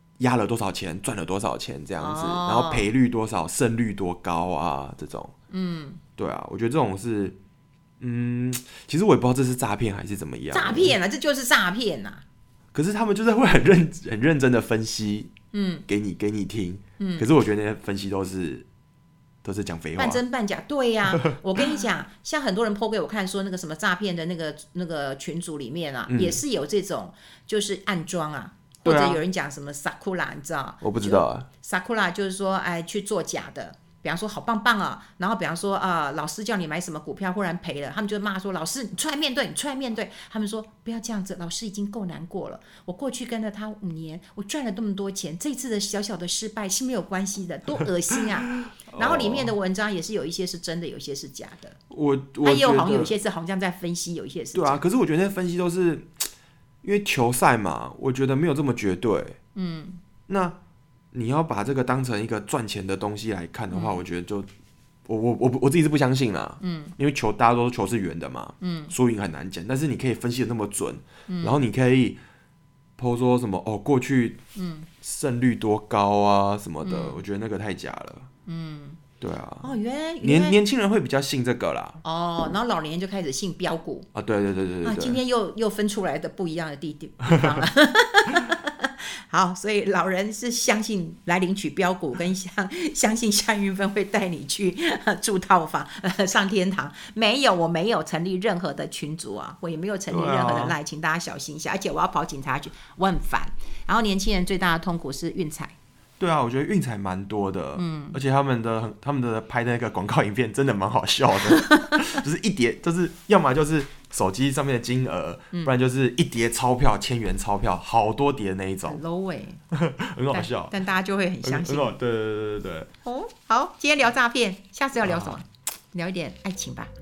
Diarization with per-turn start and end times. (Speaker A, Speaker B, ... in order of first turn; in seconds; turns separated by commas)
Speaker A: 0.2-5.3, Speaker B: 2.0-2.9, Speaker B: 5.5-6.0, Speaker A: 6.2-7.3, Speaker A: 8.0-11.0, Speaker B: 10.5-12.2, Speaker A: 12.7-15.3, Speaker B: 15.5-15.8, Speaker A: 15.9-18.6, Speaker B: 17.0-17.3, Speaker A: 19.4-20.2, Speaker B: 19.9-51.8, Speaker A: 21.1-21.7, Speaker A: 26.1-26.4, Speaker A: 28.8-29.2, Speaker A: 30.8-31.5, Speaker A: 48.7-49.5, Speaker A: 51.9-53.1, Speaker B: 52.4-54.8, Speaker A: 54.5-56.2, Speaker A: 56.8-59.4, Speaker B: 59.5-60.0, Speaker A: 60.3-60.6, Speaker A: 61.1-64.5, Speaker B: 63.7-64.0, Speaker A: 65.0-72.2, Speaker B: 66.6-66.9, Speaker B: 68.6-68.9, Speaker B: 71.3-71.6, Speaker A: 73.0-74.4, Speaker B: 74.5-74.9, Speaker A: 75.0-78.3, Speaker B: 76.8-77.2, Speaker B: 78.5-79.0, Speaker A: 79.2-82.0, Speaker B: 79.6-80.6, Speaker B: 82.0-84.1, Speaker A: 84.1-85.2, Speaker B: 84.8-105.7, Speaker A: 100.1-100.8, Speaker A: 106.2-119.0, Speaker B: 107.8-108.2, Speaker B: 111.5-112.0, Speaker B: 118.8-119.6, Speaker A: 119.7-120.8, Speaker B: 120.3-122.0, Speaker A: 121.4-122.9, Speaker B: 123.0-126.9, Speaker A: 125.0-125.4